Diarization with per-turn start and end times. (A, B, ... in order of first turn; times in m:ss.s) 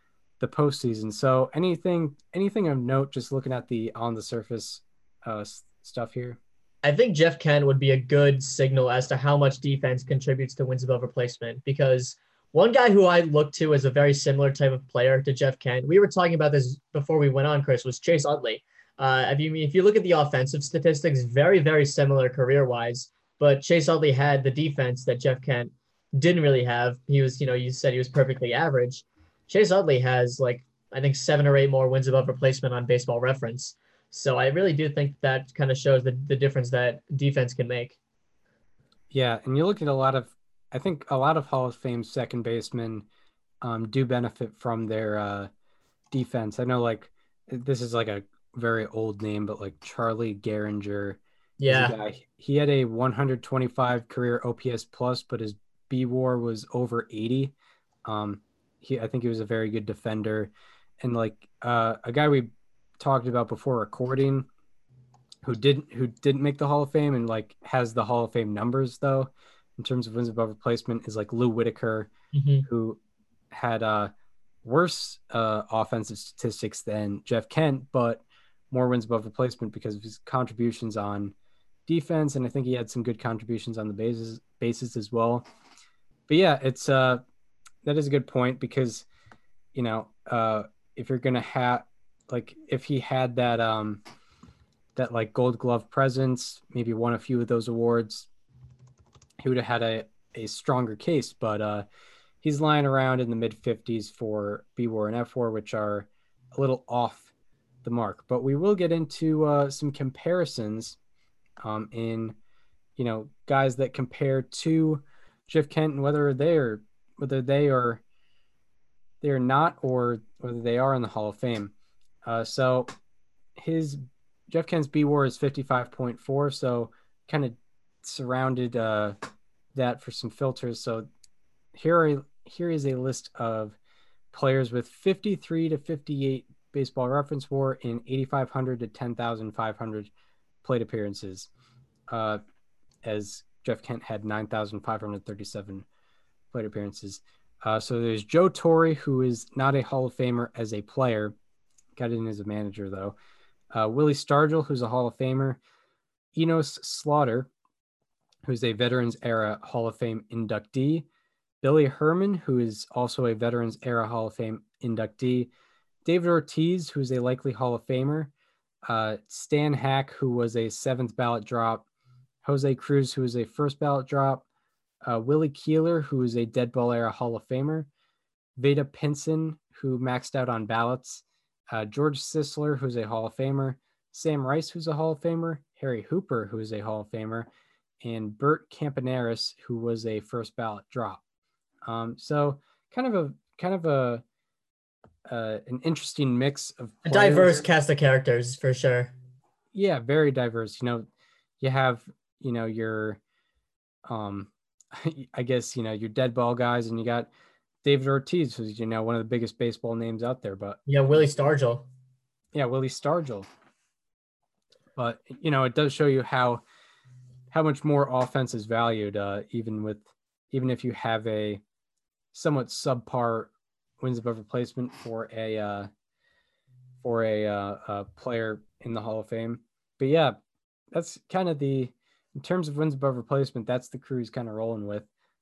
0:00.4-0:06.4 A
0:06.8-0:38.0 B
0:39.1-0:43.0 A
0:43.6-0:45.5 A
0:46.1-0:57.5 A
0:51.6-0:52.0 B
0:58.0-1:04.5 A
1:05.4-1:12.1 A
1:12.3-1:12.7 B
1:12.7-1:13.0 A
1:13.5-1:14.1 A
1:14.6-1:21.3 A
1:21.9-1:25.4 A
1:26.3-1:27.2 A
1:27.8-1:29.0 A
1:29.7-1:34.0 A
1:35.0-1:38.3 A
1:39.4-1:41.8 A
1:42.4-1:47.3 A
1:47.8-1:51.0 A
1:51.6-1:52.4 A
1:53.0-1:58.0 A
1:59.2-2:01.7 A
2:02.2-2:02.9 A
2:03.6-2:09.2 A
2:09.7-2:11.1 A
2:11.7-2:13.8 A
2:14.3-2:20.1 A
2:20.6-2:21.5 A
2:22.1-2:22.4 A
2:23.0-2:25.8 A
2:26.5-2:31.4 A
2:32.0-2:33.2 A
2:33.7-2:35.6 A
2:36.3-2:37.5 A
2:38.4-2:41.0 A
2:41.6-2:45.5 A
2:46.0-2:48.3 A
2:48.8-2:51.8 A
2:52.4-2:54.4 A
2:55.0-2:57.9 A
2:58.6-3:07.5 A
3:08.0-3:11.2 A
3:11.8-3:14.2 A
3:15.2-3:17.6 A
3:17.0-3:19.1 B
3:19.7-3:21.1 A
3:21.6-3:23.2 A
3:24.0-3:27.3 A
3:27.8-3:30.8 A
3:30.9-3:31.9 B
3:32.5-3:33.5 A
3:34.9-3:36.6 A
3:37.5-3:41.6 A
3:42.3-3:45.9 A
3:47.0-3:50.4 A
3:50.9-3:55.1 A